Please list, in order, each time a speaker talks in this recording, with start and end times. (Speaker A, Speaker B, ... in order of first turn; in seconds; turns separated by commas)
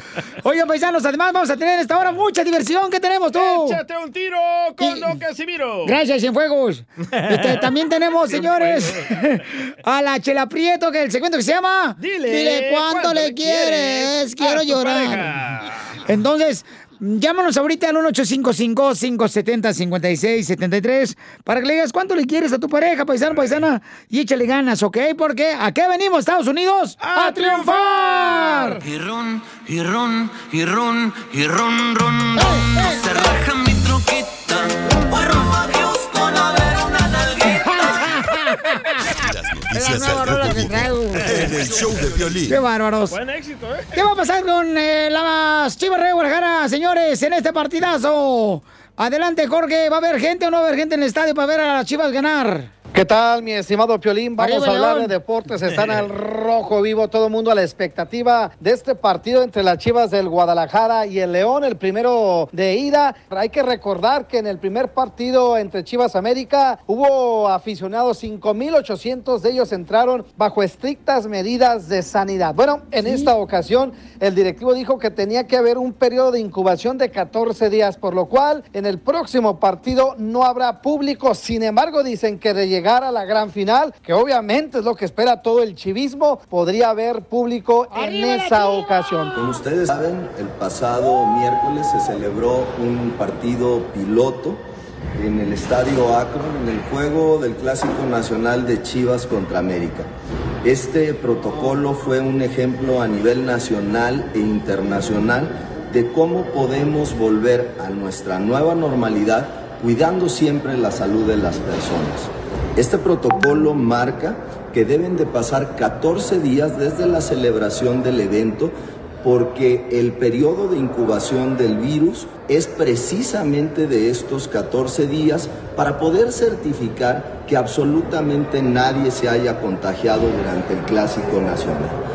Speaker A: 0.4-3.8, Speaker B: 3.3-6.0, Speaker A: 4.8-5.2, Speaker A: 5.8-15.3, Speaker B: 7.1-9.1, Speaker B: 12.0-15.9, Speaker A: 16.1-28.8, Speaker B: 27.0-28.8, Speaker C: 28.8-38.1, Speaker A: 32.4-33.2, Speaker A: 37.6-39.0, Speaker D: 39.1-42.6, Speaker A: 39.7-41.5, Speaker B: 41.2-41.5, Speaker A: 42.4-43.2, Speaker B: 43.1-44.0, Speaker A: 43.9-52.7, Speaker E: 52.9-89.4, Speaker A: 54.4-55.1, Speaker B: 55.6-56.0, Speaker A: 87.9-89.3, Speaker F: 89.4-94.6, Speaker F: 95.2-100.1, Speaker F: 100.6-132.0